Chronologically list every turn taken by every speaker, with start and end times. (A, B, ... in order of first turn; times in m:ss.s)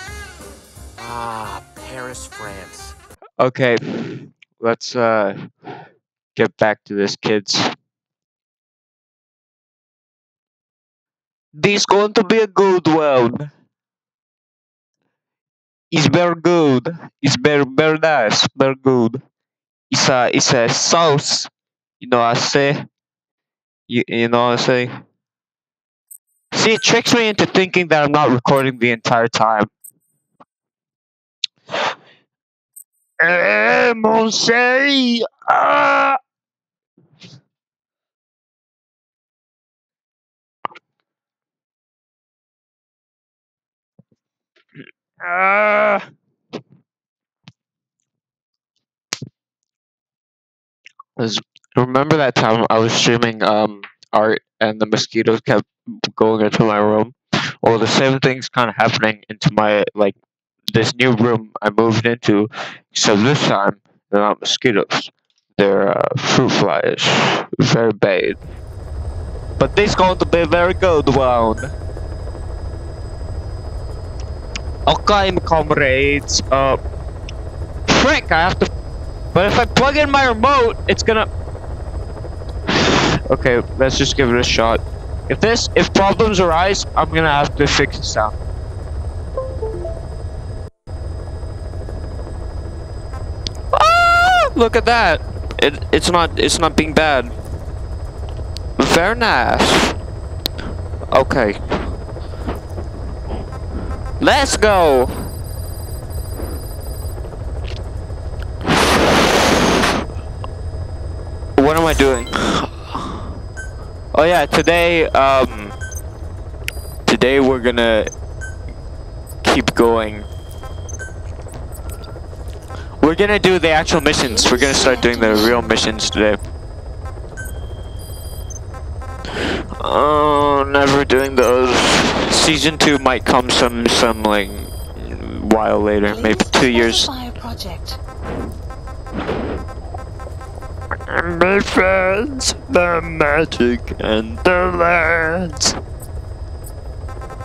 0:01.0-0:02.9 A
0:03.4-0:05.5 B
0:06.4-0:07.7 B
0:11.5-0:13.5 B
0:15.9-0:19.2 B
0:19.9-0:22.9 B
0:23.9-0:24.9 B
0:26.5-0:29.7 B
0:33.2-0:36.2 B
0:45.2-0:46.1 B
0:51.2-1:00.2 B
1:00.7-1:08.4 B
1:09.6-1:11.7 B
1:14.8-1:16.8 B
1:17.9-1:18.7 B
1:19.3-1:21.3 B
1:22.7-1:28.4 B
1:33.7-1:37.3 B
1:38.8-1:40.0 B
1:41.1-1:41.9 B
1:44.2-1:45.3 B
1:51.6-1:53.2 B
1:54.1-1:55.7 B
1:57.0-1:58.1 B
1:59.4-2:00.3 B
2:03.0-2:06.4 B
2:04.2-2:05.8 C
2:09.8-2:17.1 B
2:16.1-2:18.0 C
2:21.0-2:25.8 B